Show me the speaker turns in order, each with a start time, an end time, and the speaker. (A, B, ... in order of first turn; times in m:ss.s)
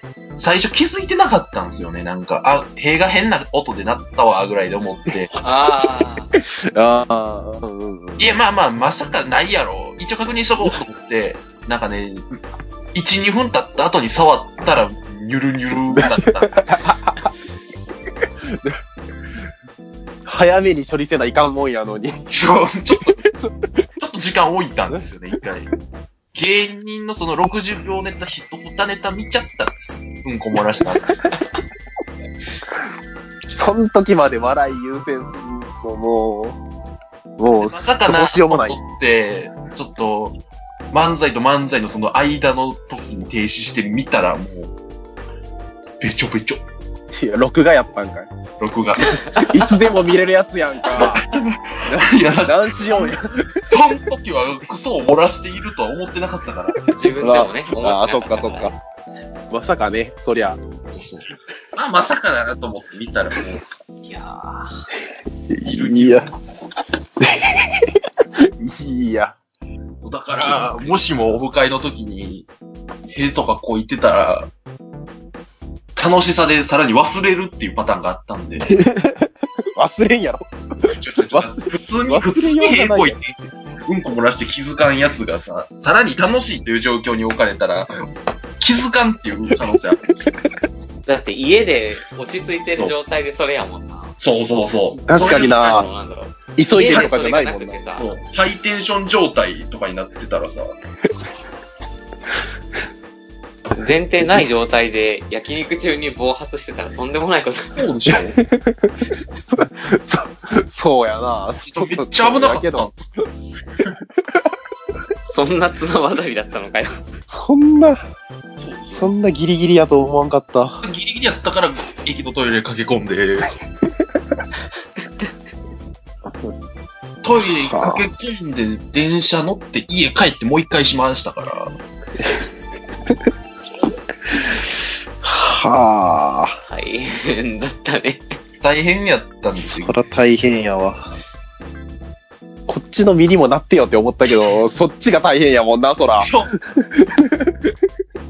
0:00.4-0:05.3 A
0:05.4-0:06.3 B
0:06.4-0:08.4 C
0:08.2-0:12.3 A
0:12.9-0:16.6 A
0:15.9-0:17.3 C
0:18.2-0:18.8 C
0:20.2-0:22.1 C
0:22.3-0:23.2 A
0:23.0-0:23.7 C
0:24.0-0:25.7 A
0:26.3-0:31.0 A
0:33.5-0:36.6 C
0:37.4-0:38.8 C
0:37.6-0:40.4 A
0:40.9-0:44.7 A
0:46.0-0:46.6 A
0:47.1-0:48.3 C
0:48.6-0:49.1 A
0:49.2-0:51.2 C
0:50.9-0:53.2 A
0:51.8-0:53.4 C
0:53.7-0:56.8 A
0:56.9-0:58.8 B
0:57.1-0:58.8 C
0:59.5-1:00.6 C
1:00.9-1:03.6 A
1:04.1-1:04.7 B
1:05.5-1:06.3 C
1:05.6-1:06.3 A
1:07.2-1:08.0 C
1:08.6-1:09.4 C
1:10.0-1:12.5 A
1:13.1-1:14.5 A
1:16.0-1:18.8 A
1:18.6-1:23.2 C
1:20.9-1:27.9 A
1:28.6-1:30.1 A
1:30.1-1:30.5 C
1:31.0-1:34.1 B
1:34.2-1:35.8 A
1:35.0-1:35.9 C
1:35.1-1:38.0 B
1:36.6-1:37.8 C
1:36.8-1:37.1 A
1:38.0-1:40.7 A
1:43.7-1:47.8 B
1:47.8-1:48.3 A
1:48.4-1:53.2 C
1:51.6-1:53.1 A
1:55.2-1:57.2 B
1:57.3-1:58.0 C
1:58.6-1:59.1 A
1:58.9-2:00.8 C
2:00.8-2:03.5 A
2:07.2-2:11.7 A
2:07.4-2:08.1 C
2:14.3-2:14.6 C
2:15.2-2:16.5 C
2:16.7-2:18.3 B
2:18.6-2:20.0 A
2:19.5-2:21.1 C
2:22.7-2:27.6 C
2:26.2-2:26.6 A